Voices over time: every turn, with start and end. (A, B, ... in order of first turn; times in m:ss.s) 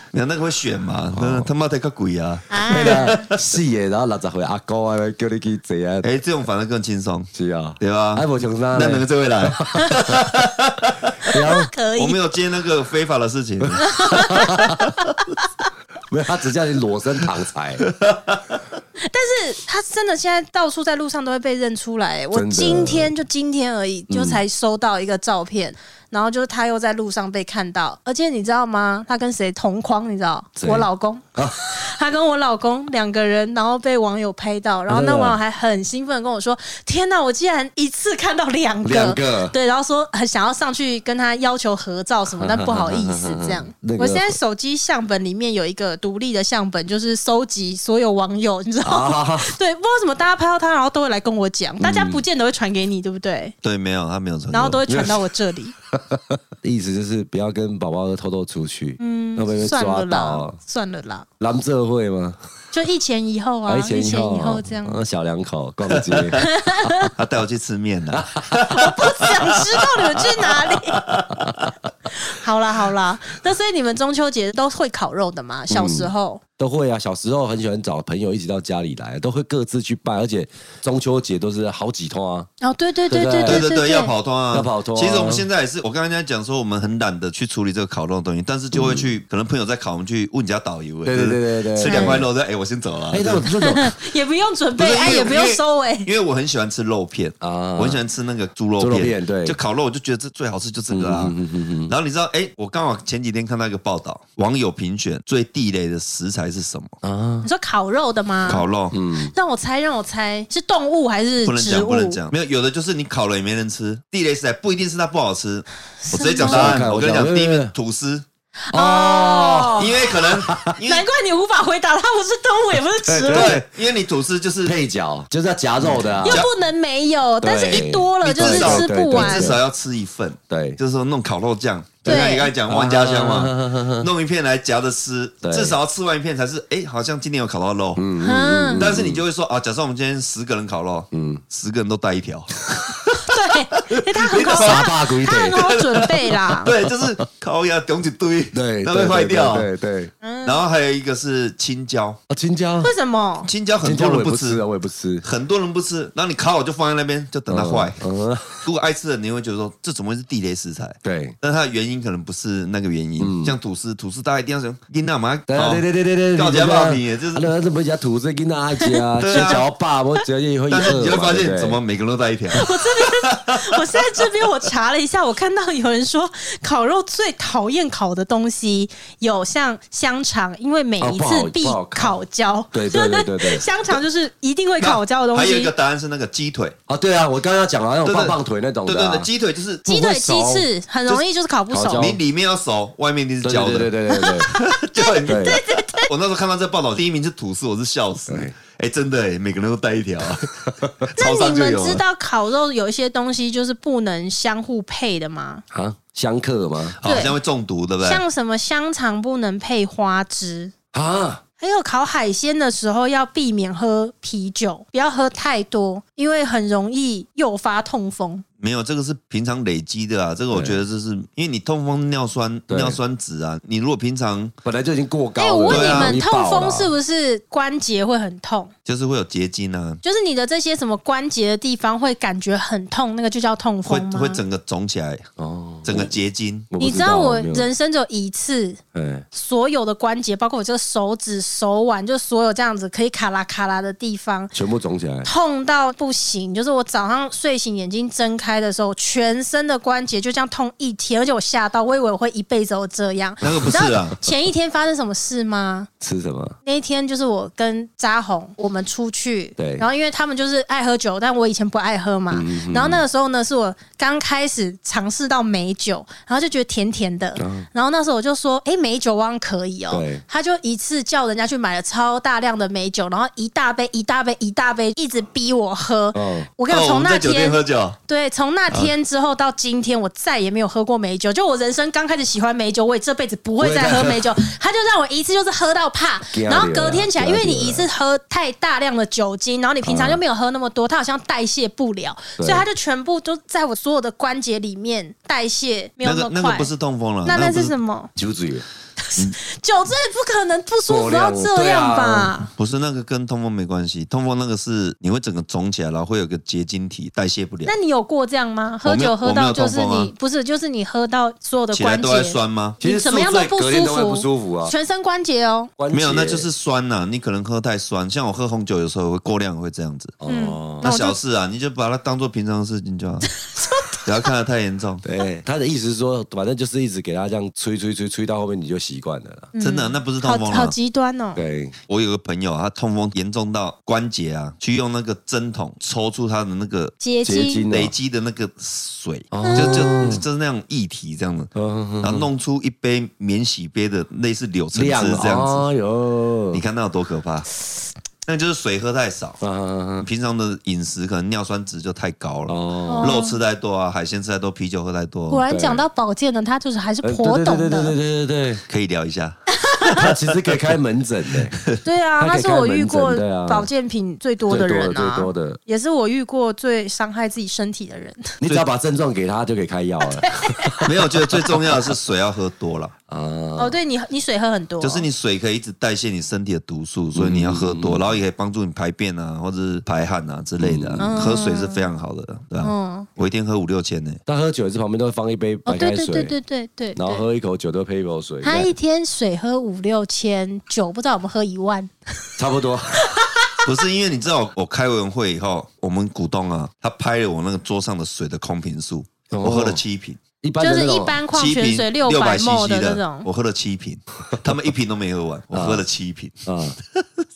0:00.1-0:03.5 A
0:01.1-0:01.5 B
0:02.5-0:03.2 C
0:02.7-0:06.1 B
0:06.0-0:15.0 A
0:07.3-0:10.2 B
0:11.2-0:11.7 B
0:11.5-0:12.2 C
0:13.7-0:14.8 B
0:13.8-0:15.5 C
0:16.1-0:17.9 B
0:17.9-0:18.6 A
0:19.0-0:53.6 C
0:22.3-0:23.1 B
0:24.1-0:24.4 B
0:30.6-0:31.6 B
0:34.9-0:35.4 B
0:38.8-0:39.6 B
0:42.3-0:44.4 B
0:48.8-0:49.5 B
0:51.8-0:52.2 B
0:53.6-0:54.8 A
0:54.5-0:55.7 C
0:54.9-0:55.3 B
0:55.9-1:00.6 B
0:59.0-1:01.3 C
1:01.4-1:02.4 B
1:02.7-1:05.0 C
1:03.7-1:06.4 B
1:06.0-1:06.5 A
1:06.4-1:07.1 C
1:07.1-1:09.6 A
1:08.1-1:08.6 B
1:08.7-1:11.1 C
1:10.9-1:11.7 A
1:12.1-1:16.4 C
1:15.7-1:22.5 B
1:22.6-1:24.1 C
1:23.1-1:23.7 B
1:23.4-1:33.5 A
1:24.5-1:25.4 B
1:28.7-1:29.1 B
1:31.0-1:32.3 B
1:31.8-1:32.2 C
1:33.1-1:33.9 B
1:33.7-1:36.1 C
1:34.8-1:41.4 A
1:37.4-1:38.0 B
1:38.8-1:39.6 B
1:40.9-1:41.9 B
1:41.9-1:47.0 A
1:47.0-1:47.5 B
1:47.4-1:48.7 C
1:48.5-1:49.0 A
1:48.9-1:49.3 B
1:49.3-1:52.3 C
1:51.4-1:58.2 A
1:56.0-1:56.8 C
1:56.4-1:57.7 B
1:58.7-1:59.9 C
1:58.7-2:00.7 B
1:59.8-2:01.1 A
2:00.8-2:03.6 C
2:03.0-2:03.7 B
2:03.3-2:04.8 A
2:04.6-2:06.5 B
2:05.8-2:06.5 A
2:06.2-2:09.6 C
2:07.4-2:09.6 B
2:08.2-2:18.0 A
2:10.5-2:10.8 B
2:12.0-2:14.1 B
2:12.1-2:12.5 C
2:15.4-2:15.8 B
2:18.0-2:19.2 B
2:18.2-2:18.8 C
2:18.8-2:23.2 A
2:21.1-2:21.4 B
2:23.2-2:26.7 C
2:23.9-2:29.7 A
2:24.5-2:25.7 B
2:26.8-2:27.1 B
2:28.5-2:30.1 B
2:30.2-2:30.6 C
2:30.4-2:32.2 A
2:32.3-2:32.9 B
2:32.8-2:33.5 C
2:33.5-2:34.6 A
2:33.8-2:35.2 B
2:35.2-2:38.0 A
2:37.5-2:38.7 B
2:38.6-2:47.5 A
2:41.0-2:41.4 B
2:43.2-2:43.6 B
2:45.5-2:51.8 B
2:48.8-2:49.6 C
2:49.2-2:49.6 A
2:50.7-2:53.8 A
2:52.5-3:05.7 C
3:01.0-3:02.2 B
3:02.7-3:03.7 B
3:04.8-3:06.8 A
3:06.9-3:09.3 B
3:08.0-3:09.9 A
3:09.8-3:12.1 C
3:09.9-3:10.7 B
3:11.7-3:12.2 B
3:11.9-3:22.0 A
3:13.4-3:14.5 B
3:14.1-3:16.1 C
3:15.2-3:15.6 B
3:18.3-3:18.5 B
3:20.5-3:21.0 B
3:21.2-3:25.6 C
3:25.7-3:27.0 B
3:27.0-3:28.2 A
3:27.0-3:27.4 C
3:28.0-3:30.7 C
3:30.9-3:31.4 B
3:31.6-3:38.4 C
3:38.6-3:44.5 A
3:40.5-3:40.8 B
3:42.7-3:43.0 B
3:44.6-3:46.9 B
3:45.4-3:48.7 C
3:45.7-3:46.2 A
3:48.9-3:50.0 A
3:50.0-3:54.4 C
3:53.8-3:55.2 A
3:55.4-3:56.1 B
3:55.8-3:56.7 A
3:56.7-3:57.7 B
3:56.8-3:58.8 C
3:58.9-3:59.2 B
3:59.3-4:04.5 C
4:04.5-4:05.3 B
4:05.2-4:15.9 C
4:13.4-4:14.2 A
4:16.0-4:16.6 B
4:16.6-4:56.7 C
4:19.6-4:19.9 B
4:22.3-4:23.0 B
4:27.4-4:27.7 B
4:29.9-4:30.2 B
4:36.1-4:36.5 B
4:36.7-4:38.0 A
4:43.6-4:44.3 B
4:46.3-4:47.9 B
4:49.8-4:50.2 B
4:52.4-4:52.7 B
4:56.0-4:57.7 A
4:57.2-4:58.1 C
4:58.2-4:58.6 B
4:59.0-5:02.5 C
5:00.9-5:02.3 B
5:02.6-5:07.7 A
5:07.7-5:15.7 C
5:08.8-5:10.1 A
5:11.7-5:12.8 A
5:12.8-5:14.8 B
5:15.8-5:16.5 B
5:15.9-5:20.2 A
5:20.2-5:20.9 B
5:20.3-5:21.2 C
5:20.8-5:25.0 A
5:23.4-5:24.0 C
5:25.0-5:29.5 B
5:29.6-5:31.4 C
5:29.6-5:30.8 A
5:31.4-5:31.8 B
5:31.9-5:37.0 A
5:37.0-5:37.6 C
5:37.2-5:37.9 B
5:37.7-5:45.6 A
5:39.3-5:40.2 B
5:39.4-5:40.2 C
5:41.5-5:42.3 B
5:44.7-5:46.6 B
5:46.5-5:47.5 A
5:48.3-5:49.4 A
5:49.4-5:50.1 B
5:50.0-5:55.4 A
5:52.5-5:53.2 B
5:52.9-5:53.4 C
5:55.3-5:58.0 C
5:55.5-5:55.8 B
5:57.0-5:58.6 B
5:58.7-5:59.4 A
5:59.5-6:00.0 C
5:59.9-6:00.6 A
6:00.0-6:01.6 B
6:01.8-6:08.4 C
6:02.2-6:03.7 B
6:04.5-6:05.6 B
6:08.4-6:11.8 B
6:10.0-6:10.9 C
6:10.8-6:12.9 A
6:13.1-6:13.8 B
6:13.6-6:15.1 C
6:14.8-6:24.2 A
6:17.2-6:18.2 B
6:20.6-6:21.2 B
6:21.0-6:21.8 C
6:22.6-6:23.1 C
6:24.3-6:26.4 B
6:25.7-6:27.2 C
6:27.0-6:28.7 B
6:28.4-6:32.3 C
6:32.4-6:33.0 B
6:32.9-6:33.7 C
6:33.6-6:40.2 A
6:39.3-6:39.8 B
6:40.4-6:41.2 B
6:40.6-6:43.3 C
6:41.3-6:47.2 A
6:45.5-6:45.9 B
6:46.5-6:46.8 B